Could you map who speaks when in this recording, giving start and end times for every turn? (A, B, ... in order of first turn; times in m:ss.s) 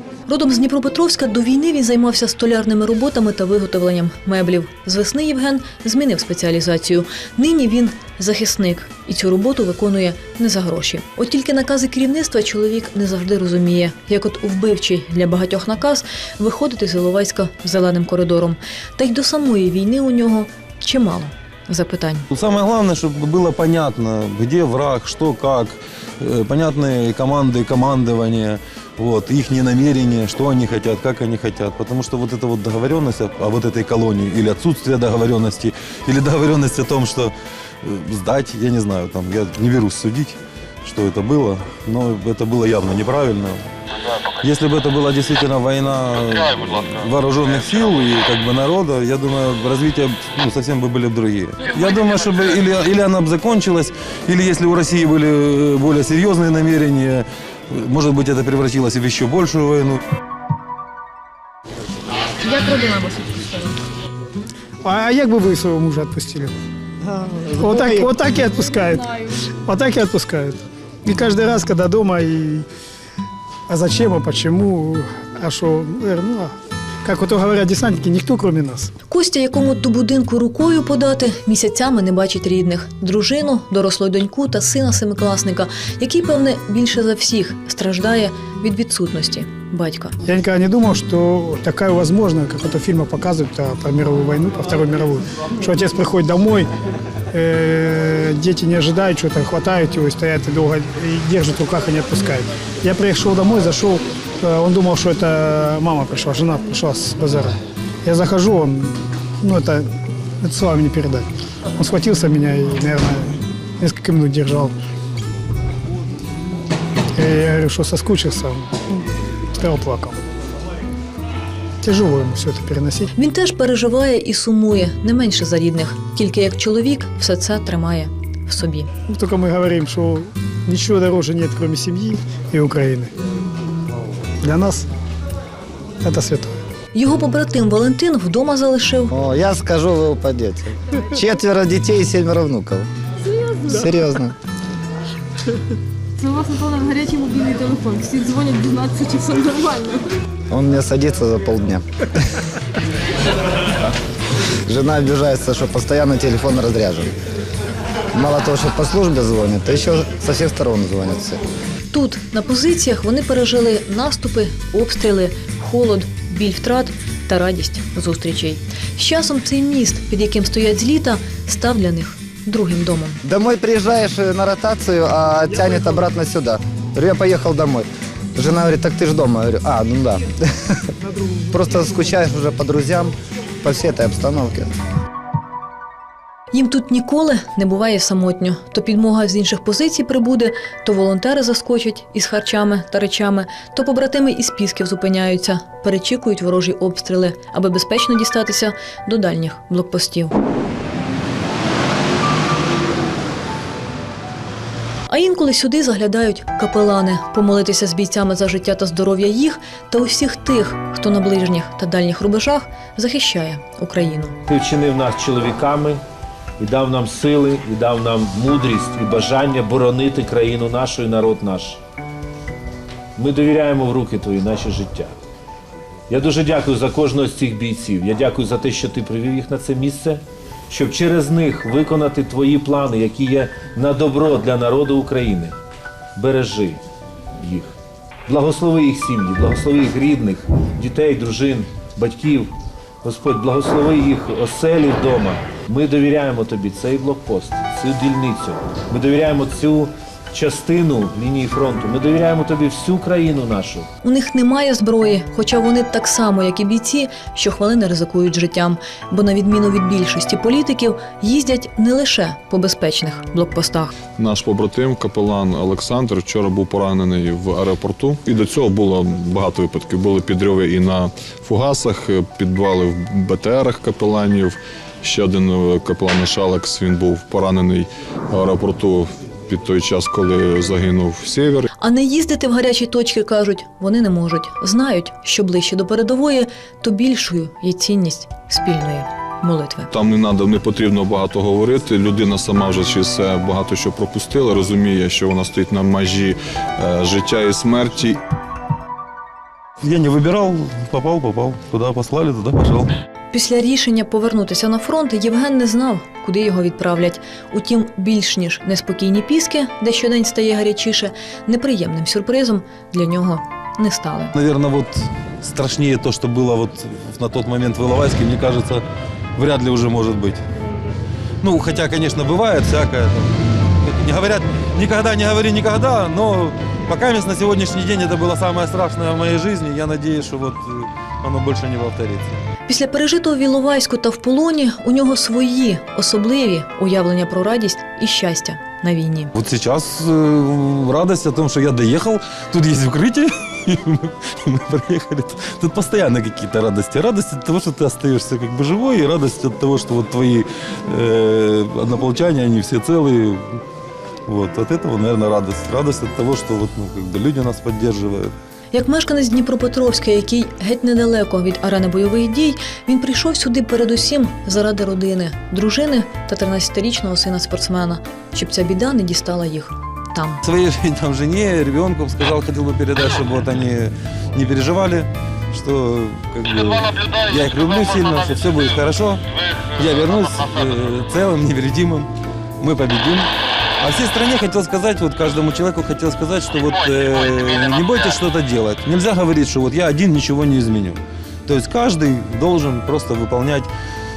0:00.3-0:22.3 A
0:22.3-0:43.6 B
0:44.4-1:00.0 B
1:02.4-1:03.5 C
1:04.8-1:06.5 D
1:07.2-1:12.6 D
1:13.7-1:16.5 D
1:17.0-1:18.9 D
1:19.1-1:30.1 A
1:30.2-1:36.7 D
1:37.3-1:49.9 D
1:50.4-1:54.7 D
1:57.2-1:59.0 D
1:59.6-2:00.2 D
2:01.8-2:03.1 D
2:03.1-2:08.9 A
2:09.1-2:13.1 D
2:14.4-2:14.9 D
2:16.0-2:16.6 D
2:16.9-2:19.1 A
2:19.1-2:22.9 E
2:23.6-2:24.4 E
2:26.2-2:30.0 C
2:30.5-2:32.2 E
2:34.6-2:37.1 E
2:38.1-2:41.4 E
2:41.9-2:53.2 A
2:53.2-3:00.8 E
3:01.5-3:04.7 E
3:06.5-3:20.3 A
3:25.1-3:34.4 A
3:34.5-3:36.0 F
3:36.6-3:41.8 F
3:43.2-3:45.1 F
3:46.1-3:55.5 F
3:56.2-3:56.8 F
3:57.4-3:57.7 F
3:58.3-4:02.5 F
4:03.0-4:13.8 F
4:14.0-4:23.9 A
4:24.2-4:41.7 G
4:41.8-4:49.9 A
4:49.9-4:58.2 G
4:59.8-5:02.9 B
5:03.3-5:14.3 A
5:14.3-5:18.8 B
5:19.4-5:20.4 B
5:21.4-5:23.3 B
5:23.8-5:32.4 B
5:32.7-5:39.3 A
5:39.4-5:53.6 B
5:54.3-5:58.3 B
5:58.7-6:10.4 A
6:10.4-6:33.7 B